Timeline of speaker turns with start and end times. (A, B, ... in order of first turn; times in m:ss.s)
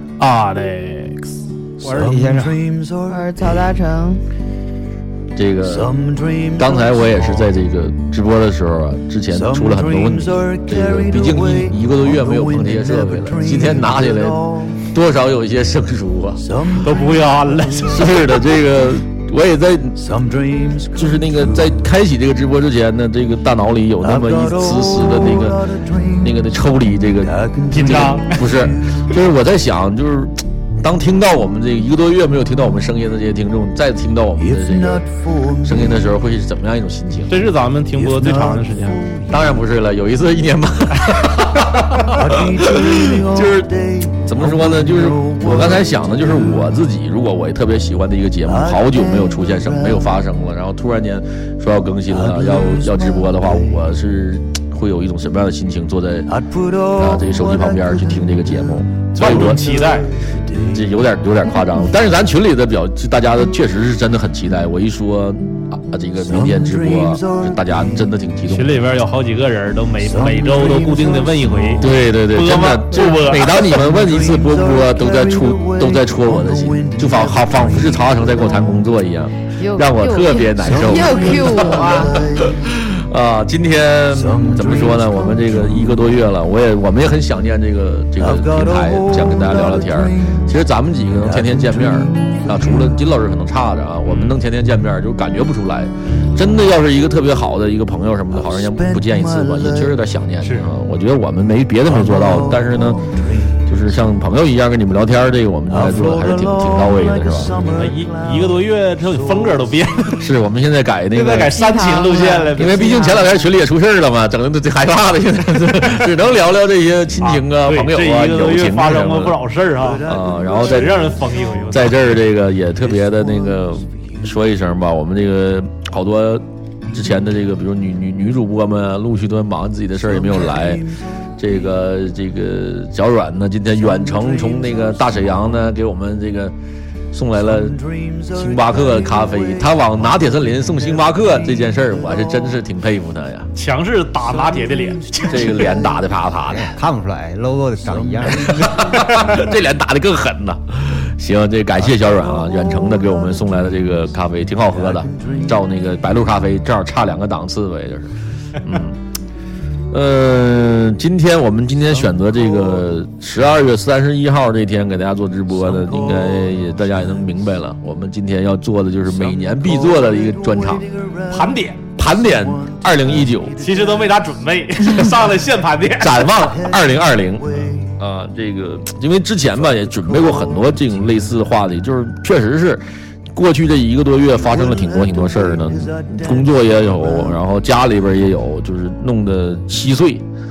0:00.2-0:02.3 A
0:01.9-0:02.7 B
0:03.0-0:04.2 C
0:05.3-0:16.8 D
0:16.8-0:18.3 A
0:17.8-0:20.0 D
0:20.7-0:37.3 D
0:27.7-0:28.4 A
0:37.3-0:39.0 A
0:39.3-0:59.8 D
0:59.1-1:00.1 A
1:00.7-1:08.8 D
1:08.5-1:13.9 A
1:11.8-1:43.1 D
1:19.6-1:22.3 C
1:34.0-1:34.4 A
1:40.4-1:40.7 A
1:43.6-1:47.9 D
1:47.7-1:50.3 A
1:50.2-1:51.6 D
1:51.1-1:53.2 A
1:51.5-1:53.3 C
1:52.5-1:59.4 D
1:57.2-2:02.0 A
2:00.0-2:01.1 D
2:01.7-2:16.5 D
2:17.1-2:23.5 D
2:23.5-2:25.8 A
2:25.3-2:26.7 D
2:26.5-2:28.7 B
2:28.4-2:39.0 D
2:39.9-2:50.9 D
2:51.3-2:51.8 A
2:52.0-2:53.6 D
2:53.6-2:56.5 A
2:56.0-3:02.8 D
3:03.3-3:10.2 D